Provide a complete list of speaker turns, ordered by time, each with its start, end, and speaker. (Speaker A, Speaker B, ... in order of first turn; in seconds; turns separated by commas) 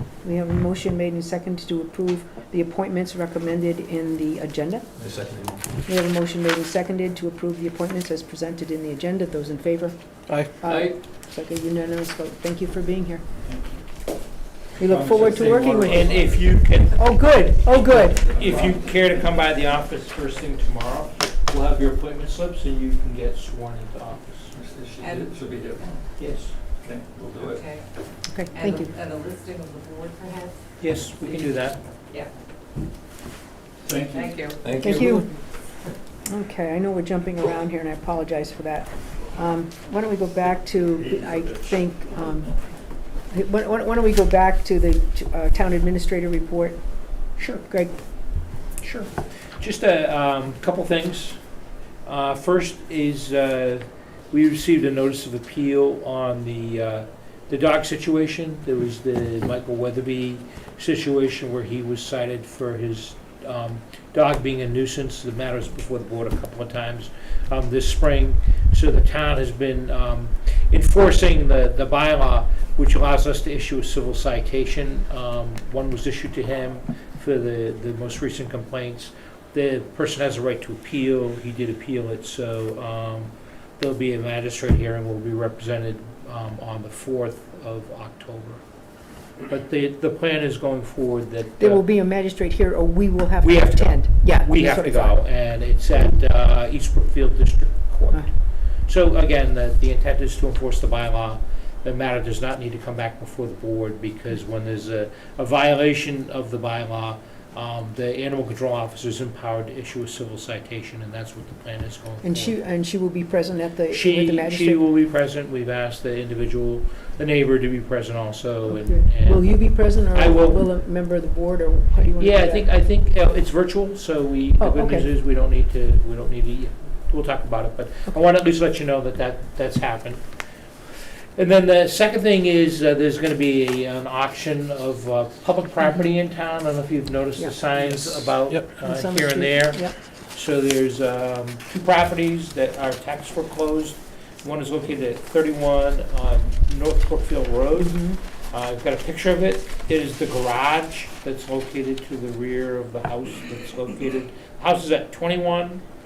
Speaker A: 0.2-4.8, Speaker B: 5.0-5.6, Speaker A: 5.8-9.9, Speaker A: 10.5-13.2, Speaker B: 10.7-10.9, Speaker A: 14.8-16.2, Speaker B: 14.9-16.4, Speaker C: 15.8-24.5, Speaker A: 16.9-18.4, Speaker B: 18.2-18.8, Speaker B: 24.5-26.0, Speaker C: 26.2-26.6, Speaker B: 26.8-27.7, Speaker A: 28.3-28.9, Speaker D: 28.6-30.5, Speaker C: 30.8-31.8, Speaker B: 33.9-35.2, Speaker D: 34.2-34.5, Speaker A: 34.8-35.3, Speaker A: 36.2-42.5, Speaker A: 43.3-46.8, Speaker C: 47.4-47.6, Speaker A: 47.6-47.9, Speaker C: 48.8-49.1, Speaker C: 49.6-51.4, Speaker C: 52.0-88.6, Speaker C: 89.5-91.8, Speaker A: 91.6-95.2, Speaker C: 93.4-98.2, Speaker C: 98.9-112.5, Speaker A: 112.2-114.8, Speaker C: 113.9-120.7, Speaker A: 118.7-122.7, Speaker C: 122.2-130.2, Speaker A: 124.6-125.1, Speaker C: 131.3-148.0, Speaker A: 137.4-139.9, Speaker A: 147.8-148.2, Speaker C: 148.5-155.8